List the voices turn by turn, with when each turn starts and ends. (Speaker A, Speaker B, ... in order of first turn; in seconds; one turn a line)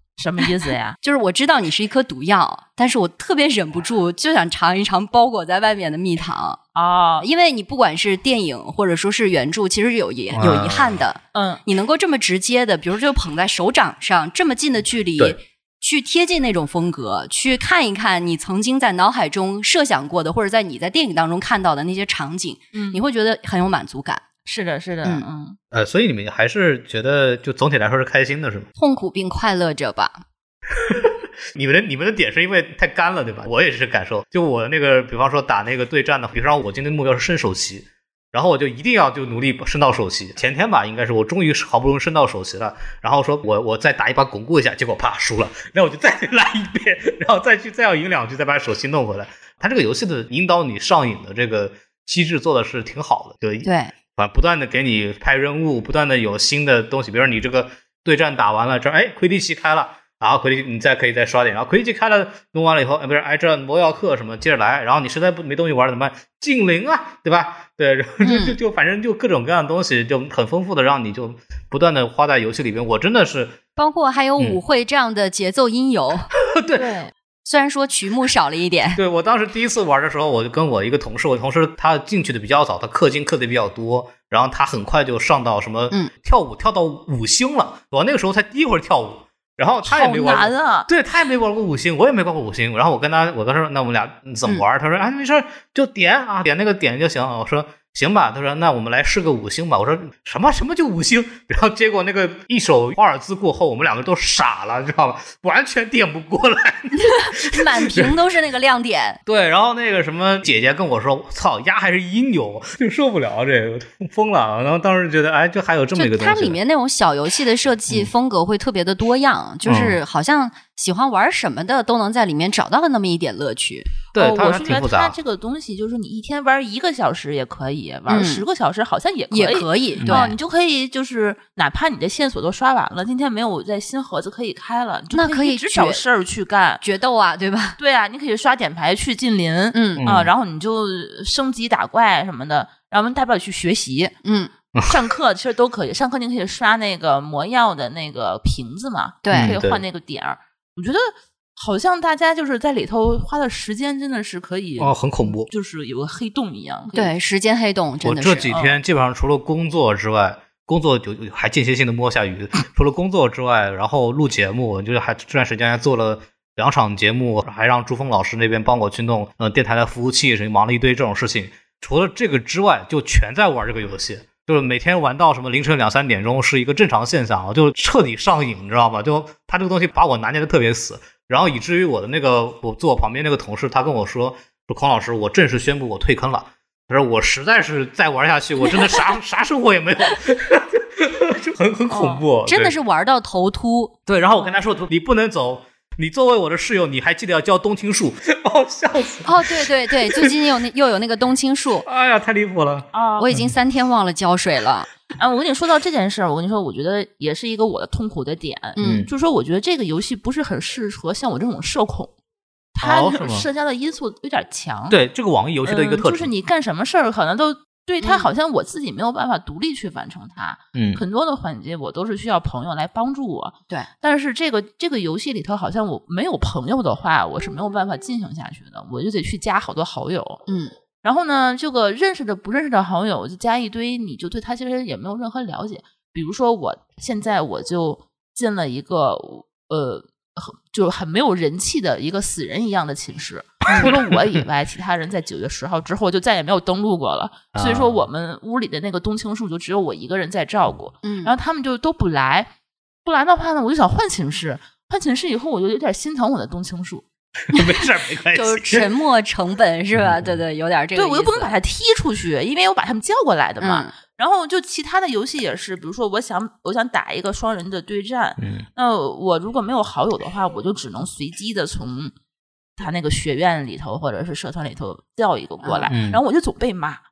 Speaker A: 0.2-1.0
Speaker B: 1.0-6.6
Speaker A: 6.8-7.2
Speaker B: 7.2-24.2
Speaker C: 10.3-11.0
Speaker A: 11.3-11.6
Speaker A: 22.7-23.0
Speaker A: 24.5-25.6
Speaker C: 25.7-28.7
Speaker B: 28.8-30.2
Speaker C: 30.8-73.6
Speaker B: 53.6-53.9
Speaker B: 68.2-68.6
Speaker B: 73.8-76.3
Speaker C: 76.4-76.9
Speaker A: 76.8-77.1
Speaker B: 77.5-79.0
Speaker C: 79.0-108.2
Speaker A: 89.8-90.9
Speaker B: 107.0-109.2
Speaker C: 109.3-116.6
Speaker B: 116.0-123.9
Speaker C: 119.7-120.0
Speaker C: 124.1-125.2
Speaker A: 124.1-136.8
Speaker B: 128.1-128.4
Speaker B: 129.3-130.3
Speaker C: 130.0-130.3
Speaker B: 135.1-136.0
Speaker B: 136.8-137.8
Speaker A: 137.8-144.1
Speaker B: 139.7-140.1
Speaker C: 140.0-140.3
Speaker B: 144.2-144.5
Speaker C: 144.8-145.1
Speaker A: 144.9-157.1
Speaker B: 149.2-149.5
Speaker C: 149.3-149.8
Speaker C: 154.8-155.5
Speaker B: 156.9-158.5
Speaker C: 158.0-192.7
Speaker A: 158.5-158.8
Speaker A: 191.9-192.2
Speaker B: 192.5-193.9
Speaker C: 194.1-200.3
Speaker B: 199.2-201.9
Speaker C: 201.8-203.5
Speaker A: 202.9-203.3
Speaker B: 203.2-204.9
Speaker A: 205.2-212.1
Speaker B: 208.8-209.1
Speaker C: 208.8-209.1
Speaker A: 212.8-215.0
Speaker C: 212.8-213.5
Speaker C: 214.9-216.3
Speaker A: 215.7-230.4
Speaker C: 220.8-221.0
Speaker B: 230.5-230.7
Speaker A: 231.0-252.5
Speaker C: 247.6-248.0
Speaker B: 251.0-251.3
Speaker A: 253.1-257.0
Speaker C: 257.5-258.9
Speaker B: 258.3-261.5
Speaker C: 260.0-260.4
Speaker A: 261.0-272.1
Speaker B: 263.6-263.9
Speaker C: 268.4-268.7
Speaker A: 272.8-277.0
Speaker B: 275.6-275.9
Speaker C: 275.9-276.2